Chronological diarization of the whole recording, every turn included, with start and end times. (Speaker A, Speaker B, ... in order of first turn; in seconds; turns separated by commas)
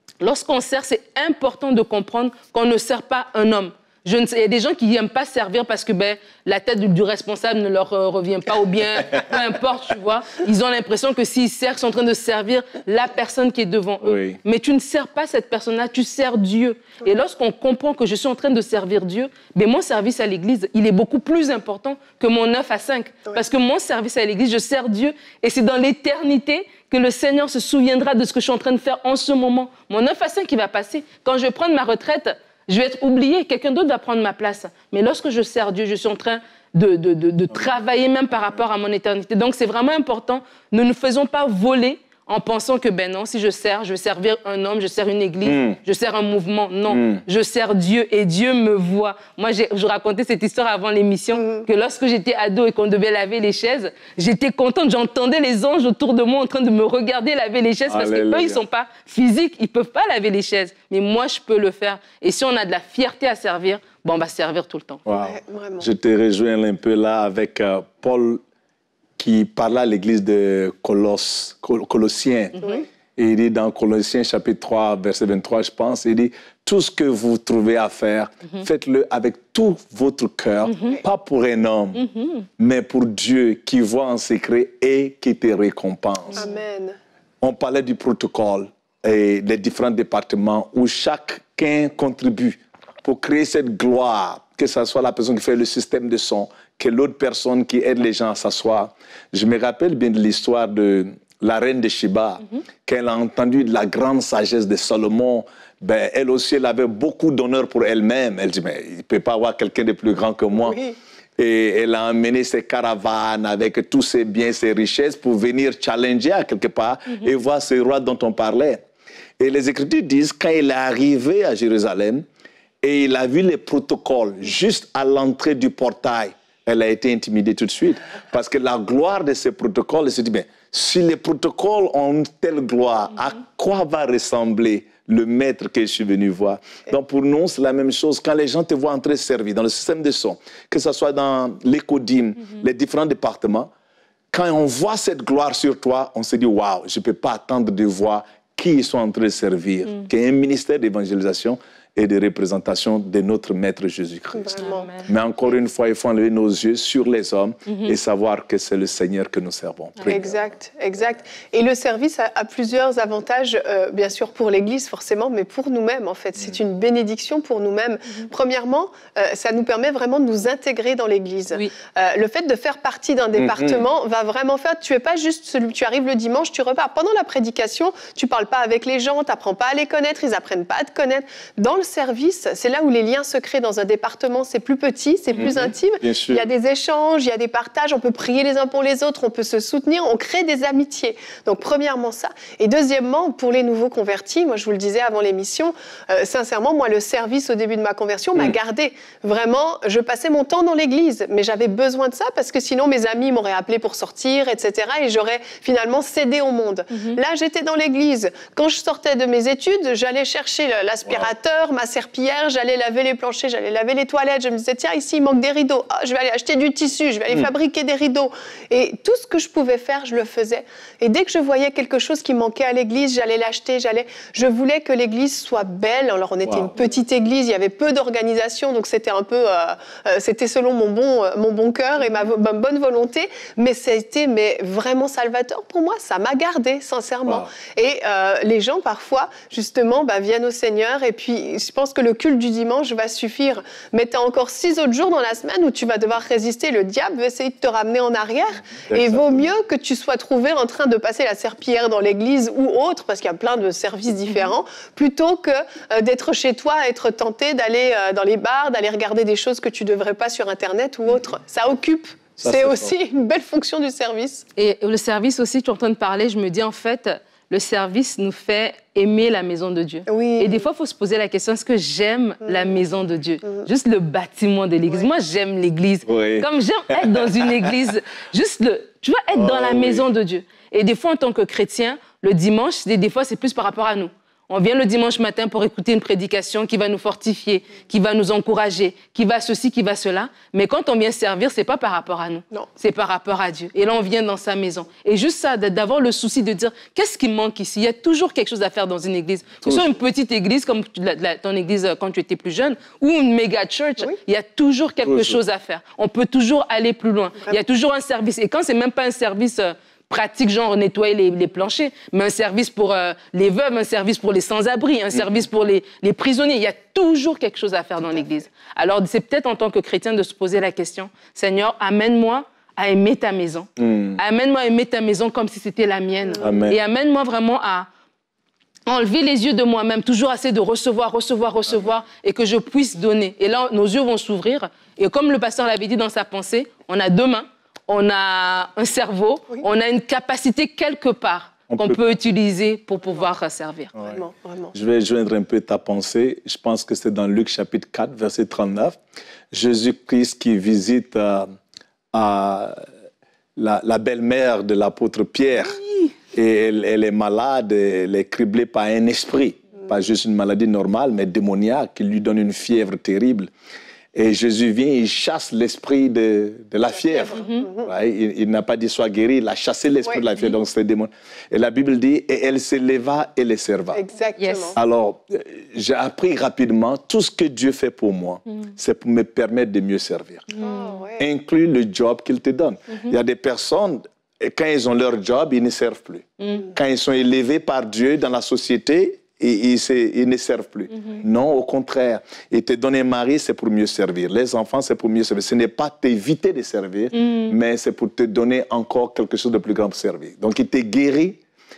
Speaker A: 0.2-65.0, Speaker B: 14.0-14.4, Speaker B: 45.5-45.8, Speaker B: 46.9-47.2, Speaker B: 57.9-58.6, Speaker B: 65.1-68.4, Speaker C: 65.2-65.9, Speaker B: 69.2-72.6, Speaker A: 72.6-72.8, Speaker B: 73.2-82.0, Speaker A: 80.7-81.0, Speaker A: 82.0-82.5, Speaker B: 82.6-86.4, Speaker C: 86.3-87.0, Speaker B: 87.4-110.8, Speaker B: 111.4-118.8, Speaker B: 119.4-122.2, Speaker B: 122.8-143.7, Speaker B: 144.3-160.3, Speaker C: 154.3-154.9, Speaker A: 154.6-155.1, Speaker C: 160.1-264.5, Speaker B: 173.4-173.8, Speaker B: 185.4-186.4, Speaker B: 226.5-226.7, Speaker B: 248.8-249.5, Speaker B: 262.4-262.9, Speaker A: 264.6-327.9, Speaker C: 270.1-270.6, Speaker B: 276.1-277.7, Speaker B: 279.3-280.1, Speaker B: 299.6-299.9, Speaker B: 305.0-305.4, Speaker B: 323.8-324.2, Speaker B: 326.4-326.8, Speaker A: 328.9-343.9, Speaker B: 341.7-342.1, Speaker C: 344.1-344.7, Speaker B: 344.7-349.0, Speaker B: 349.5-351.5, Speaker B: 352.1-352.8, Speaker B: 353.6-355.8, Speaker B: 356.3-363.5, Speaker B: 364.1-374.0, Speaker A: 367.4-367.7, Speaker C: 367.6-367.9, Speaker C: 373.9-374.8, Speaker A: 374.4-374.8, Speaker B: 374.8-380.5, Speaker A: 380.5-380.9, Speaker C: 380.6-381.3, Speaker B: 381.2-401.4, Speaker A: 386.4-386.7, Speaker A: 397.1-397.6